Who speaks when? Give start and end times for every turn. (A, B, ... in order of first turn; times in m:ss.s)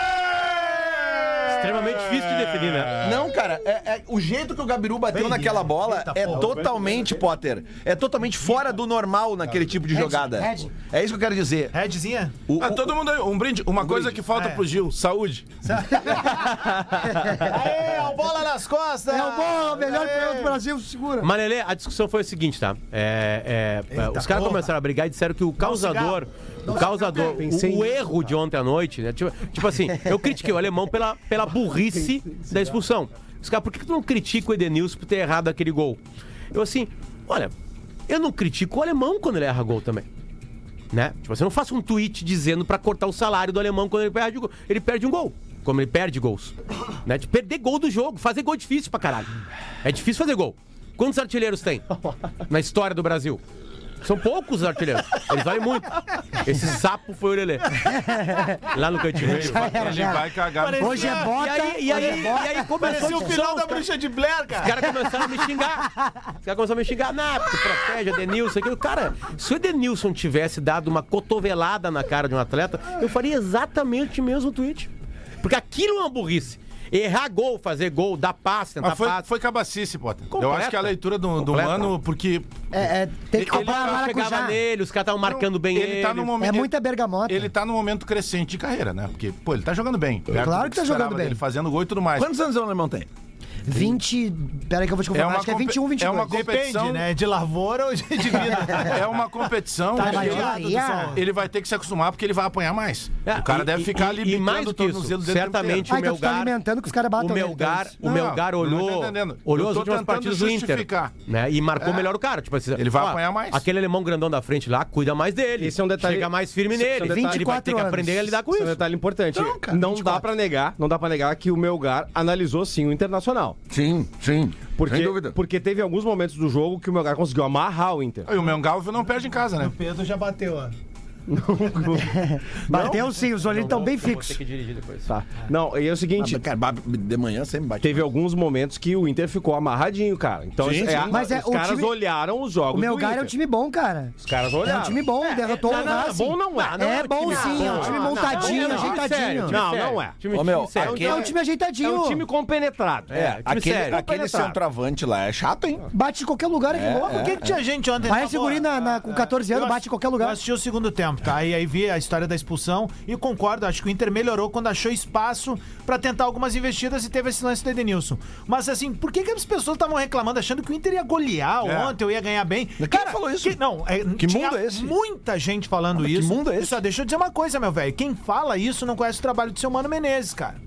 0:01.4-0:03.1 A
0:03.0-0:11.8 B
0:05.1-0:06.7 C
0:06.5-0:07.1 D
0:09.9-0:10.7 E
0:11.7-0:12.4 C
0:12.5-0:13.0 B
0:12.6-0:15.5 F
0:13.8-0:14.3 B
0:14.3-0:14.6 C
0:15.6-0:20.6 C
0:17.2-0:17.8 E
0:19.1-0:21.3 E
0:21.2-0:36.0 A
0:23.9-0:24.7 C
0:25.6-0:27.3 C
0:27.2-0:28.2 D
0:36.5-0:37.5 A
0:38.1-0:40.0 A
0:40.9-0:49.3 A
0:49.8-0:52.0 A
0:52.5-0:53.4 A
0:54.0-0:57.8 A
0:57.8-0:58.7 E
0:58.7-1:00.1 A
0:59.2-1:01.3 F
0:59.3-1:03.4 E
1:00.6-1:04.8 C
1:01.2-1:03.8 A
1:04.5-1:05.9 A
1:06.4-1:14.9 A
1:15.4-1:19.2 A
1:18.8-1:24.1 F
1:20.3-1:21.9 A
1:22.7-1:24.6 E
1:23.4-1:26.3 A
1:25.2-1:26.7 F
1:26.4-1:27.5 E
1:27.3-1:32.3 F
1:30.3-1:31.4 E
1:32.2-1:33.1 B
1:33.6-1:36.4 E
1:35.1-1:37.0 F
1:36.3-1:39.4 C
1:38.3-1:38.7 E
1:38.6-1:40.6 F
1:39.9-1:41.2 C
1:40.0-1:41.2 E
1:41.1-1:45.9 F
1:43.2-1:46.6 A
1:45.9-1:48.0 E
1:47.2-1:58.8 A
1:48.0-1:51.1 F
1:52.8-1:53.6 F
1:55.6-1:56.3 D
1:56.9-1:58.4 E
1:57.0-1:57.4 D
1:58.5-2:03.6 D
1:59.3-1:59.9 B
2:03.7-2:05.4 B
2:04.8-2:08.3 D
2:08.2-2:09.7 F
2:09.6-2:10.8 C
2:11.3-2:12.1 D
2:11.9-2:14.4 E
2:12.7-2:15.1 A
2:15.1-2:16.4 D
2:16.2-2:18.1 B
2:17.8-2:23.3 D
2:20.6-2:21.1 B
2:21.1-2:21.9 E
2:22.7-2:29.6 E
2:24.2-2:25.0 D
2:25.2-2:31.2 A
2:25.8-2:26.7 D
2:27.3-2:28.9 D
2:29.5-2:30.1 D
2:30.3-2:31.3 B
2:30.8-2:33.4 D
2:30.8-2:32.2 E
2:33.1-2:34.0 A
2:33.4-2:35.9 B
2:34.0-2:34.6 D
2:35.9-2:37.4 E
2:36.7-2:37.6 B
2:37.0-3:00.6 C
2:38.0-2:40.4 E
2:51.6-2:52.0 F
2:52.8-2:53.6 B
2:54.2-2:55.0 B
2:55.9-2:56.8 B